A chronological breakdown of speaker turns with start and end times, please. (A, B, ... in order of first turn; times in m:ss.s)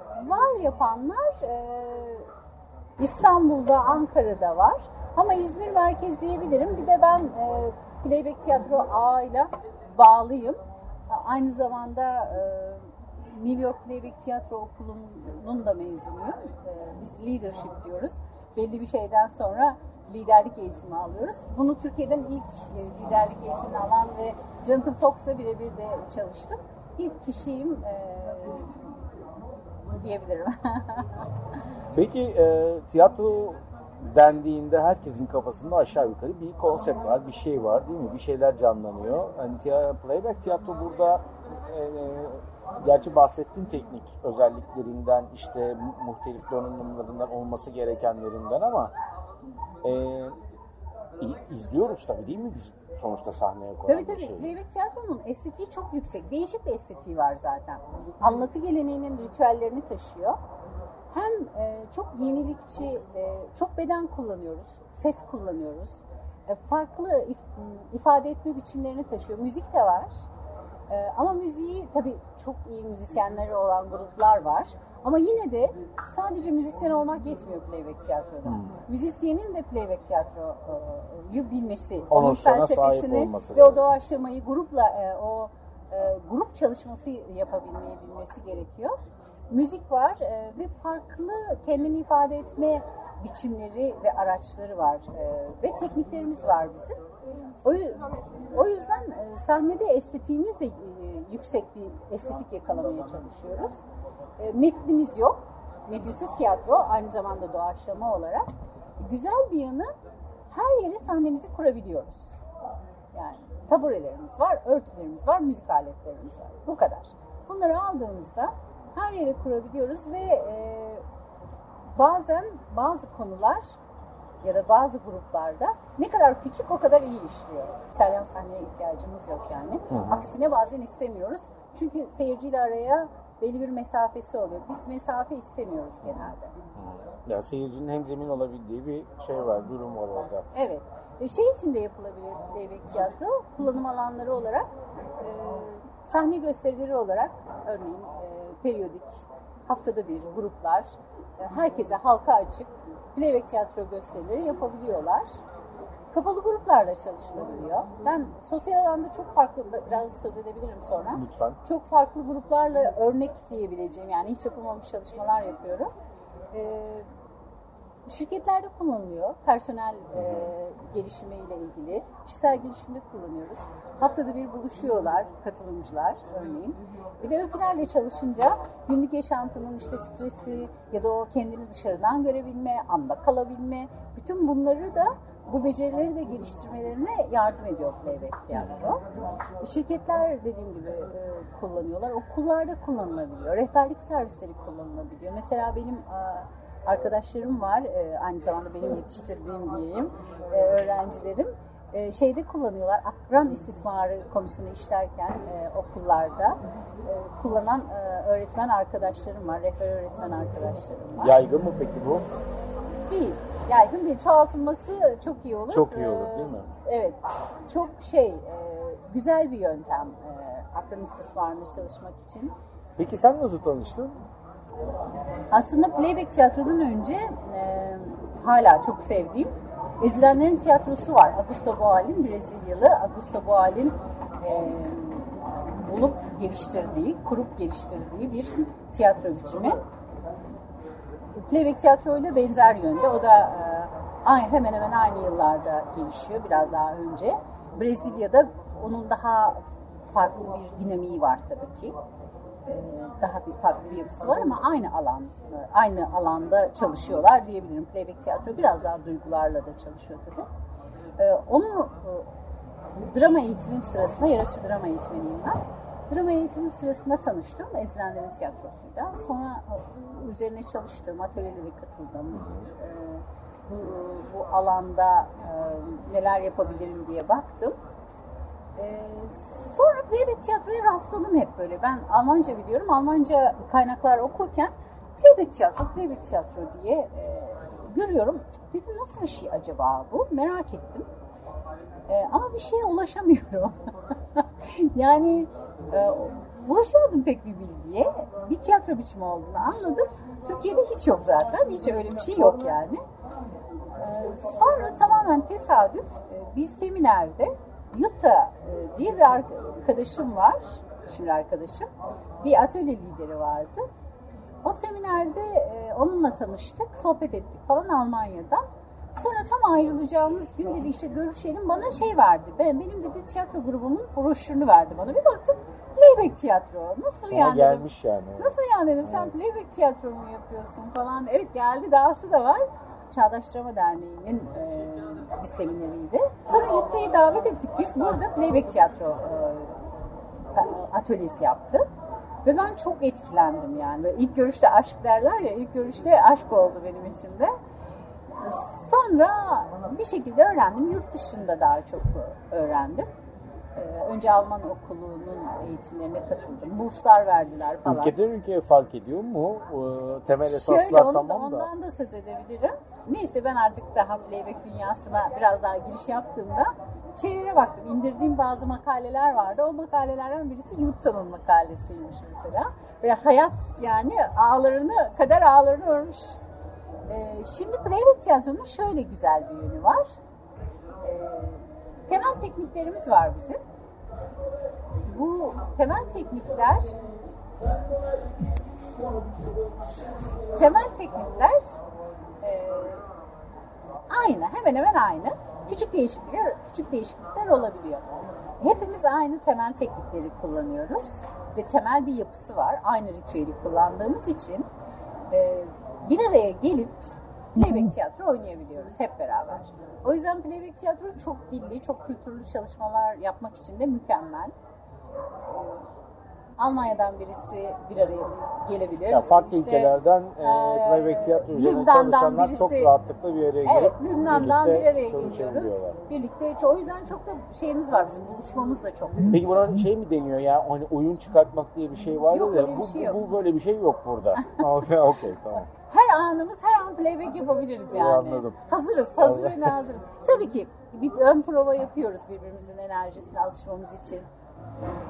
0:00.2-0:02.3 A
0:03.0-0:28.9 A
0:29.9-0:31.3 A
0:31.9-0:48.9 B
0:49.8-0:50.4 B
0:51.2-0:54.5 B
0:53.9-1:00.4 A
1:01.1-1:10.2 A
1:10.9-1:29.0 A
1:18.4-1:18.8 B
1:22.1-1:23.9 B
1:29.5-1:37.0 A
1:37.6-1:43.8 A
1:44.4-1:49.9 A
1:50.5-1:52.4 A
1:53.1-2:01.0 A
2:01.9-2:03.7 A
2:04.4-2:16.5 A
2:09.9-2:10.2 B
2:16.0-2:20.5 B
2:20.5-2:35.4 A
2:36.1-2:45.9 A
2:41.1-2:41.6 B
2:46.5-2:47.1 A
2:48.1-3:09.0 A
2:50.1-2:50.5 B
3:09.6-3:31.3 A
3:31.2-3:32.3 B
3:33.1-3:42.5 A
3:35.7-3:36.7 B
3:43.0-3:44.2 B
3:45.5-3:59.8 A
4:01.4-4:12.0 A
4:12.6-4:20.5 A
4:21.2-4:22.3 A
4:23.1-4:37.8 A
4:32.3-4:32.6 B
4:38.8-4:51.1 A
4:52.1-5:03.0 A
5:03.9-5:11.9 A
5:12.4-5:13.8 A
5:14.6-5:27.9 A
5:27.3-5:29.3 B
5:28.4-5:39.8 A
5:40.5-5:41.8 A
5:42.4-5:47.6 A
5:48.4-5:53.1 A
5:53.8-5:58.1 A
5:57.8-6:01.7 B
6:00.4-6:16.4 A
6:17.1-6:20.2 A
6:21.0-6:23.6 A
6:25.1-6:26.9 A
6:30.5-6:31.8 A
6:32.4-6:33.0 A
6:34.1-6:38.0 A
6:38.6-6:44.7 A
6:45.3-6:54.5 A
6:56.6-7:02.9 A
6:59.1-7:06.0 B
7:03.6-7:09.8 A
7:09.3-7:15.7 B
7:12.3-7:13.2 A
7:15.6-7:24.3 A
7:17.9-7:18.6 B
7:19.2-7:19.8 B